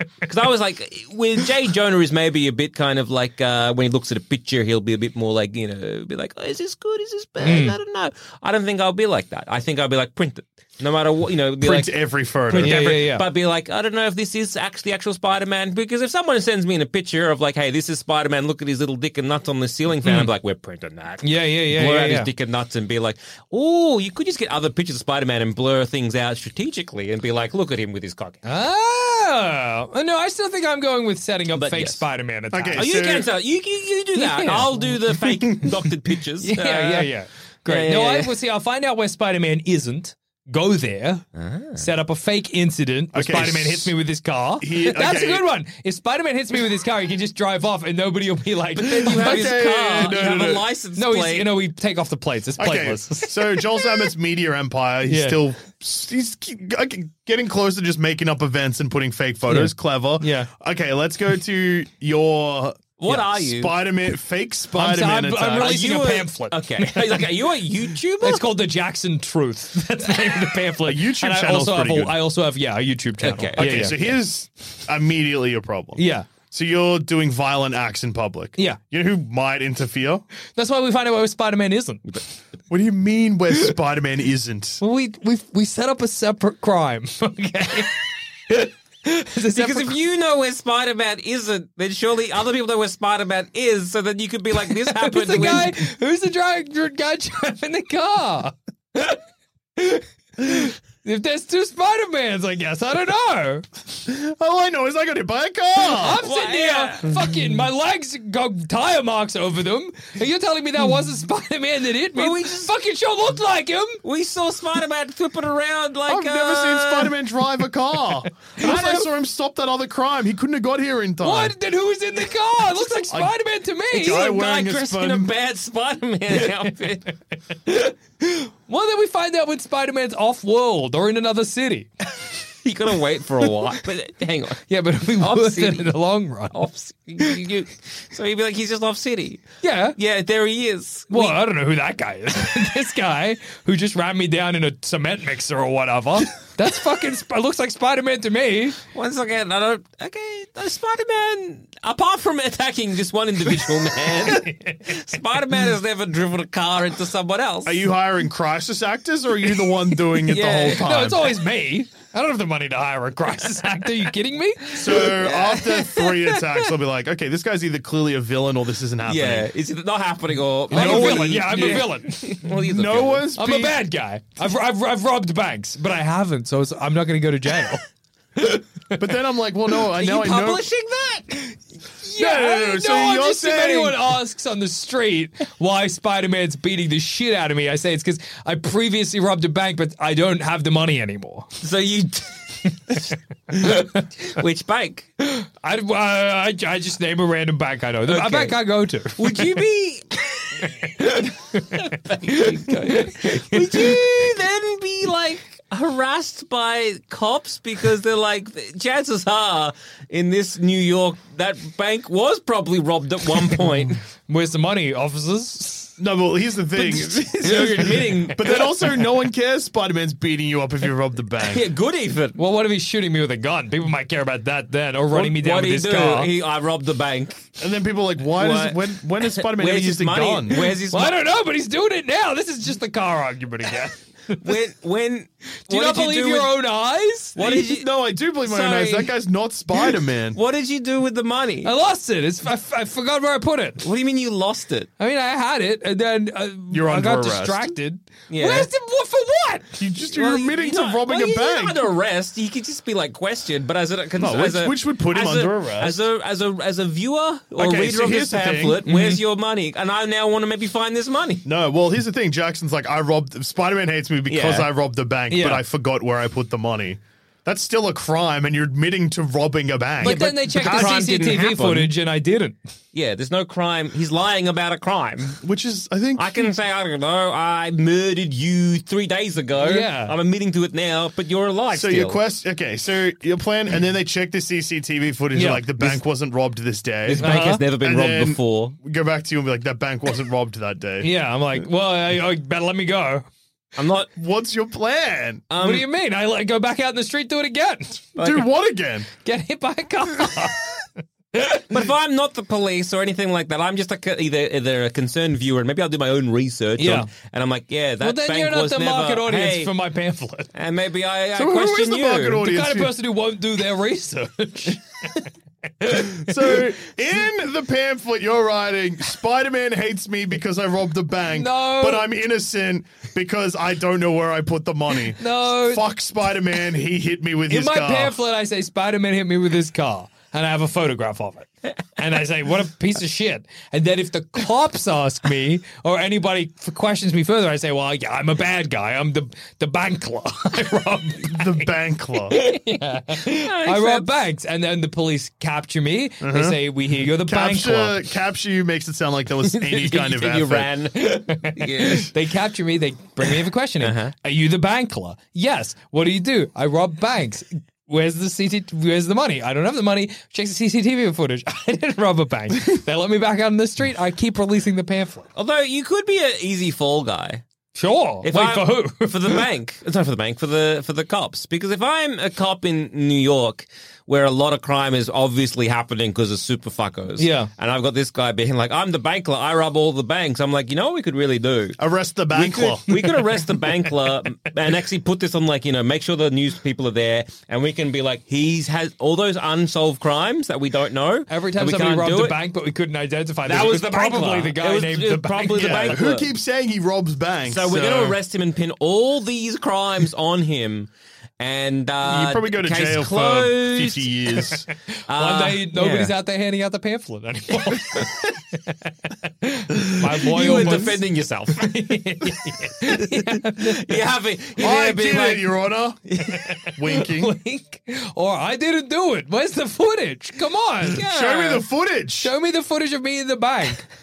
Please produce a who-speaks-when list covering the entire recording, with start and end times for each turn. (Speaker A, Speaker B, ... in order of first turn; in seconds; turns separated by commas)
Speaker A: 0.2-28.4, Speaker B: 7.4-7.8, Speaker C: 11.6-12.8, Speaker B: 12.5-13.3, Speaker B: 20.0-20.3, Speaker B: 21.2-22.3, Speaker B: 28.4-32.9, Speaker A: 31.5-32.0, Speaker C: 32.5-33.3, Speaker A: 32.8-37.1, Speaker B: 34.1-35.7, Speaker B: 36.4-41.2, Speaker A: 37.6-38.3, Speaker A: 41.3-41.8, Speaker B: 41.8-49.5, Speaker C: 43.1-43.9, Speaker C: 44.6-45.5, Speaker A: 48.8-51.5, Speaker C: 49.1-50.6, Speaker B: 51.0-53.6, Speaker C: 52.6-65.8, Speaker B: 55.0-55.4, Speaker B: 59.5-60.5, Speaker A: 63.0-63.8, Speaker B: 64.7-67.3, Speaker A: 65.6-68.5, Speaker B: 68.2-74.0, Speaker C: 70.8-72.2, Speaker A: 73.2-74.1, Speaker C: 73.5-80.2, Speaker B: 76.0-76.3, Speaker B: 80.5-82.0, Speaker C: 82.7-84.8, Speaker B: 84.8-89.9, Speaker A: 89.5-95.8, Speaker B: 94.7-99.2, Speaker B: 99.8-103.6, Speaker C: 104.1-106.2, Speaker B: 105.9-114.0, Speaker A: 106.2-107.1, Speaker A: 112.1-112.7, Speaker A: 114.0-117.2, Speaker C: 116.1-121.5, Speaker B: 118.6-119.0, Speaker B: 121.2-124.3, Speaker C: 123.1-123.3, Speaker C: 123.9-125.3, Speaker A: 124.0-127.1, Speaker B: 126.4-126.9, Speaker B: 127.7-131.9, Speaker A: 132.6-134.7, Speaker B: 134.7-136.6, Speaker A: 135.2-135.9, Speaker A: 136.5-141.4, Speaker B: 139.6-139.9, Speaker B: 141.1-148.8, Speaker A: 148.9-157.9, Speaker B: 154.2-154.9, Speaker C: 157.6-161.2, Speaker A: 160.3-160.8, Speaker B: 160.3-165.0, Speaker C: 164.7-169.5, Speaker A: 165.0-166.7, Speaker A: 169.0-173.3, Speaker B: 170.7-172.5, Speaker C: 170.7-173.8, Speaker B: 173.4-177.8, Speaker B: 178.3-179.0, Speaker C: 179.0-180.6, Speaker A: 179.9-181.3, Speaker B: 181.3-191.6, Speaker C: 182.1-184.1, Speaker A: 191.6-195.1, Speaker B: 193.6-194.0, Speaker B: 195.2-199.6, Speaker A: 198.1-214.0, Speaker B: 200.6-204.3, Speaker B: 214.3-215.9, Speaker C: 216.0-221.6, Speaker A: 216.8-219.2, Speaker A: 221.4-222.4, Speaker B: 222.3-226.3, Speaker A: 225.1-227.5, Speaker C: 227.6-230.7, Speaker A: 228.2-231.2, Speaker B: 230.8-234.6, Speaker A: 234.4-236.6, Speaker B: 235.7-237.4, Speaker A: 237.3-237.9, Speaker C: 237.4-240.4, Speaker A: 238.4-239.2, Speaker A: 240.3-241.7, Speaker B: 241.6-243.9, Speaker A: 243.8-244.9, Speaker B: 245.0-249.7, Speaker C: 246.7-247.7, Speaker A: 248.3-248.7, Speaker C: 249.7-251.9, Speaker A: 250.1-261.4, Speaker C: 254.2-256.0, Speaker C: 257.6-258.8, Speaker B: 258.9-259.2, Speaker C: 261.4-271.0, Speaker A: 264.3-264.7, Speaker B: 265.3-265.6, Speaker A: 270.0-271.9, Speaker B: 270.0-272.6, Speaker A: 272.9-275.4, Speaker C: 275.4-276.5, Speaker A: 276.1-282.2, Speaker B: 279.6-280.1, Speaker C: 281.7-287.2, Speaker B: 285.3-286.0, Speaker A: 287.1-288.7, Speaker B: 287.2-287.6, Speaker C: 287.7-291.1, Speaker B: 291.0-293.2, Speaker A: 293.8-294.1, Speaker C: 294.1-295.4, Speaker A: 295.5-295.9, Speaker B: 295.6-298.2, Speaker A: 298.1-298.5, Speaker C: 298.2-299.1, Speaker B: 299.1-301.6, Speaker A: 301.7-309.7, Speaker B: 306.8-307.1, Speaker B: 308.0-310.5, Speaker A: 310.5-312.5, Speaker C: 311.3-312.9, Speaker B: 312.4-315.1, Speaker B: 315.9-316.2, Speaker C: 316.0-328.2, Speaker B: 321.3-322.1, Speaker B: 325.2-325.9, Speaker B: 327.5-341.7, Speaker C: 341.2-342.4, Speaker B: 342.3-348.0, Speaker A: 343.2-344.2, Speaker C: 346.2-350.7, Speaker A: 349.4-352.1, Speaker B: 351.0-365.3, Speaker A: 353.8-354.1, Speaker A: 365.3-367.4, Speaker B: 367.7-369.4, Speaker A: 368.2-381.8, Speaker B: 377.2-377.5, Speaker C: 381.8-382.9, Speaker A: 382.3-392.4, Speaker B: 383.0-383.9, Speaker B: 391.3-396.0, Speaker A: 393.4-396.3, Speaker C: 395.5-398.2, Speaker A: 397.4-404.4, Speaker C: 402.0-404.7, Speaker A: 405.1-406.1, Speaker B: 405.1-411.0, Speaker A: 407.6-408.2, Speaker A: 410.2-412.0, Speaker B: 411.6-414.0, Speaker A: 413.1-415.6, Speaker C: 414.6-416.1, Speaker B: 416.3-421.0, Speaker C: 416.8-417.3, Speaker A: 420.9-421.6, Speaker C: 420.9-422.3, Speaker B: 422.2-423.8